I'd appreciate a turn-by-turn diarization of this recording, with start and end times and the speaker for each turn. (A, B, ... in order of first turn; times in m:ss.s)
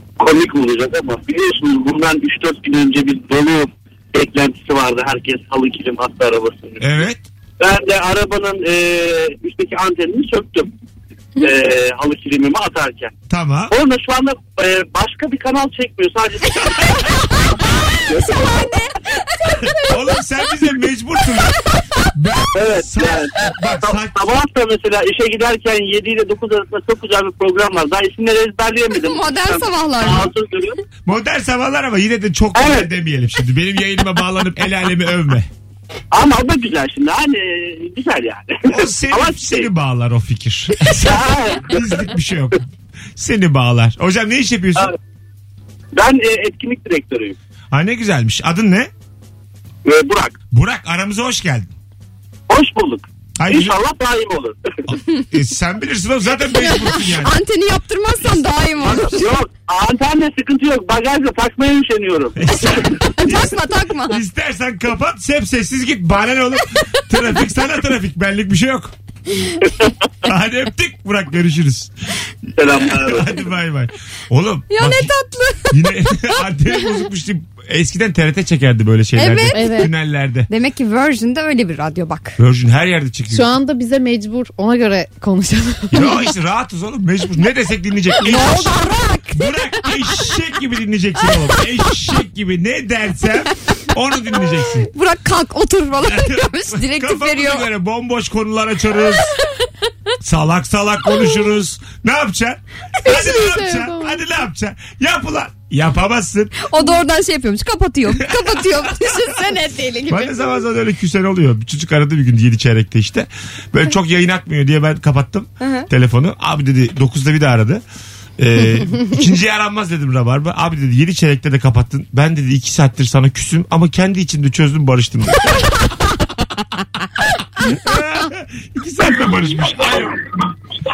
0:00.2-0:07.0 A
0:06.8-0:07.2 B
0:07.6-0:10.7 A
0:11.4-0:13.1 A
0:13.3-0:13.7 B
0:13.7-0:17.1 A
0:18.1-0:18.7 A
0:19.7-0:21.6 B
0:22.1-0:24.2 B
0:22.5-0:30.8 A
0:29.0-0:30.3 C
0:31.1-0:35.5 B
0:32.5-0:32.9 A
0:36.1-0:39.7 A
0:38.7-0:42.6 B
0:40.9-0:42.0 A
0:43.2-0:44.9 B
0:45.9-0:47.4 A
0:47.7-0:48.9 B
0:49.8-0:50.4 A
0:50.5-0:51.7 B
0:52.5-0:54.6 A
0:53.4-0:53.8 B
0:54.9-0:57.4 B
0:56.8-0:59.4 C
0:58.8-1:02.9 A
1:02.4-1:08.9 B
1:02.7-1:04.2 C
1:10.2-1:11.9 B
1:12.6-1:13.4 A
1:12.6-1:15.1 B
1:14.7-1:15.9 C
1:15.7-1:20.5 B
1:19.2-1:19.9 C
1:19.5-1:19.9 D
1:20.5-1:22.4 C
1:22.4-1:23.5 B
1:23.3-1:26.0 D
1:25.9-1:34.9 B
1:28.2-1:29.5 C
1:34.8-1:37.7 C
1:36.0-1:39.3 B
1:40.2-1:46.6 B
1:43.0-1:44.2 D
1:46.6-1:50.6 C
1:48.1-1:49.4 B
1:50.1-1:57.8 B
1:55.6-1:55.9 C
1:58.4-2:05.8 B
2:07.6-2:10.2 B